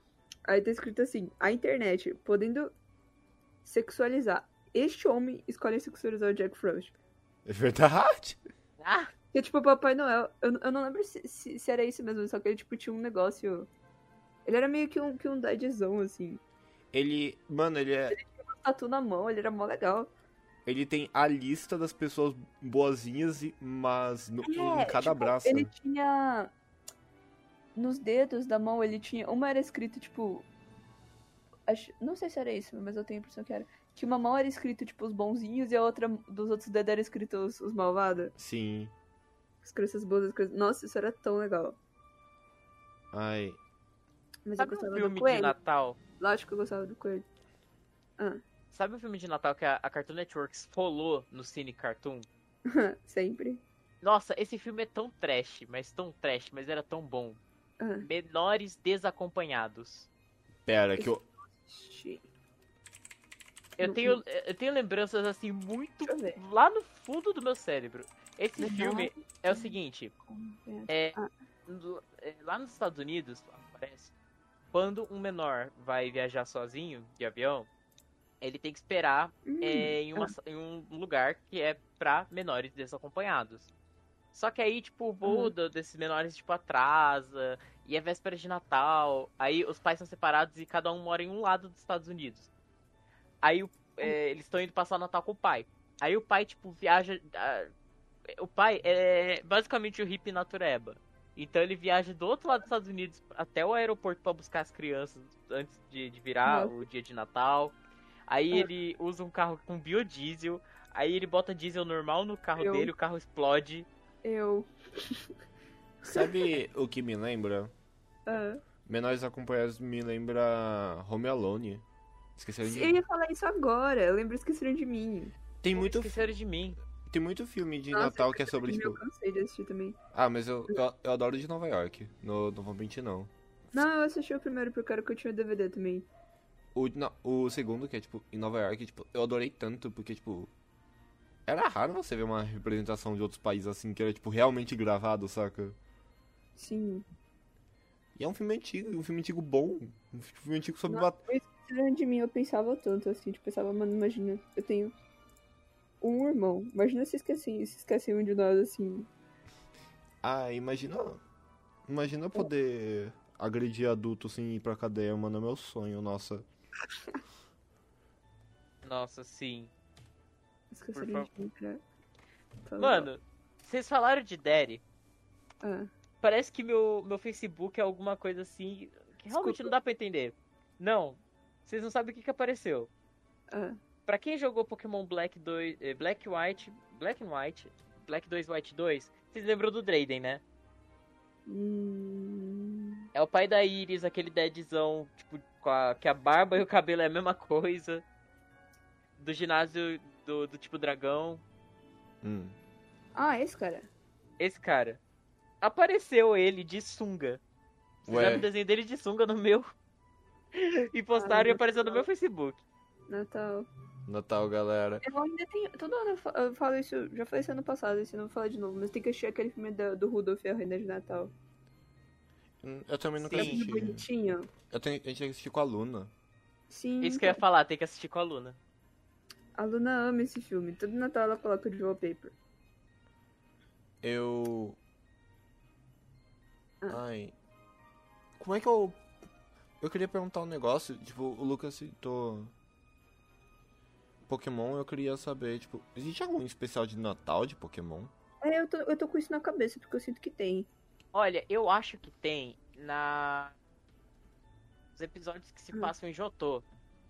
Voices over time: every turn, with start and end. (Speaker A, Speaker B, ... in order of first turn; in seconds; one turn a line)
Speaker A: 0.5-2.7
Speaker A: 3.6-6.9
Speaker B: 7.5-8.4
Speaker C: 8.8-9.1
Speaker A: 9.3-13.7
Speaker A: 14.5-16.4
Speaker B: 16.9-18.2
Speaker A: 18.1-20.1
Speaker B: 20.7-25.7
Speaker A: 24.4-26.5
Speaker A: 27.8-30.5
Speaker A: 31.7-38.3
Speaker B: 38.4-38.9
Speaker A: 39.6-41.8
Speaker B: 43.1-43.6
Speaker A: 44.5-45.5
Speaker C: 44.6-46.0
Speaker A: 46.2-47.3
Speaker C: 48.7-52.3
Speaker A: 52.7-53.6
Speaker C: 54.0-57.4
Speaker A: 57.8-58.1
Speaker C: 58.0-60.1
Speaker B: 60.7-61.2
Speaker A: 61.6-62.2
Speaker C: 63.8-70.2
Speaker A: 63.8-64.2
Speaker A: 66.0-66.4
Speaker A: 68.6-69.7
Speaker A: 70.3-71.3
Speaker C: 70.9-74.1
Speaker C: 74.7-77.7
Speaker C: 78.4-83.7
Speaker A: 79.5-80.3
Speaker C: 84.3-92.5
Speaker A: 85.2-85.5
Speaker C: 93.4-97.7
Speaker C: 98.3-107.8
Speaker A: 106.5-106.8
Speaker C: 108.3-113.9
Speaker A: 112.6-112.9
Speaker A: 114.2-115.3
Speaker A: 116.0-116.3
Speaker B: 116.0-117.7
Speaker A: 118.3-118.6
Speaker B: 118.9-121.8
Speaker B: 122.4-123.0
Speaker A: 122.6-125.3
Speaker B: 125.6-126.3
Speaker C: 125.8-126.8
Speaker B: 127.1-129.0
Speaker A: 127.9-130.0
Speaker B: 130.1-133.3
Speaker A: 133.7-136.1
Speaker B: 136.8-140.5
Speaker B: 141.5-145.8
Speaker A: 146.6-147.1
Speaker B: 148.2-151.2
Speaker A: 150.9-154.9
Speaker A: 156.0-159.1
Speaker B: 160.2-161.2
Speaker B: 161.9-166.4
Speaker C: 168.8-169.7
Speaker A: 170.7-171.8
Speaker C: 170.9-171.3
Speaker A: 172.7-173.1
Speaker C: 172.8-174.8
Speaker A: 175.6-175.9
Speaker C: 176.2-182.9
Speaker A: 179.3-179.7
Speaker A: 183.5-183.8
Speaker C: 184.1-190.4
Speaker A: 191.5-193.1
Speaker C: 193.1-198.0
Speaker C: 199.2-201.4
Speaker B: 202.2-202.6
Speaker A: 203.2-203.9
Speaker C: 204.4-205.0
Speaker C: 205.6-207.4
Speaker B: 208.1-208.5
Speaker C: 208.1-209.7
Speaker C: 210.5-212.6
Speaker A: 211.1-212.1
Speaker A: 213.1-213.7
Speaker B: 214.1-215.0
Speaker A: 215.0-221.3
Speaker B: 222.6-224.1
Speaker A: 223.2-224.5
Speaker C: 223.3-223.6
Speaker B: 224.7-226.1
Speaker A: 226.7-227.4
Speaker C: 227.0-228.6
Speaker A: 229.6-232.3
Speaker B: 234.0-234.8
Speaker B: 236.9-237.3
Speaker B: 238.4-239.0
Speaker B: 239.8-242.5
Speaker B: 244.3-248.1
Speaker A: 248.4-250.7
Speaker C: 251.1-253.6
Speaker C: 255.0-256.6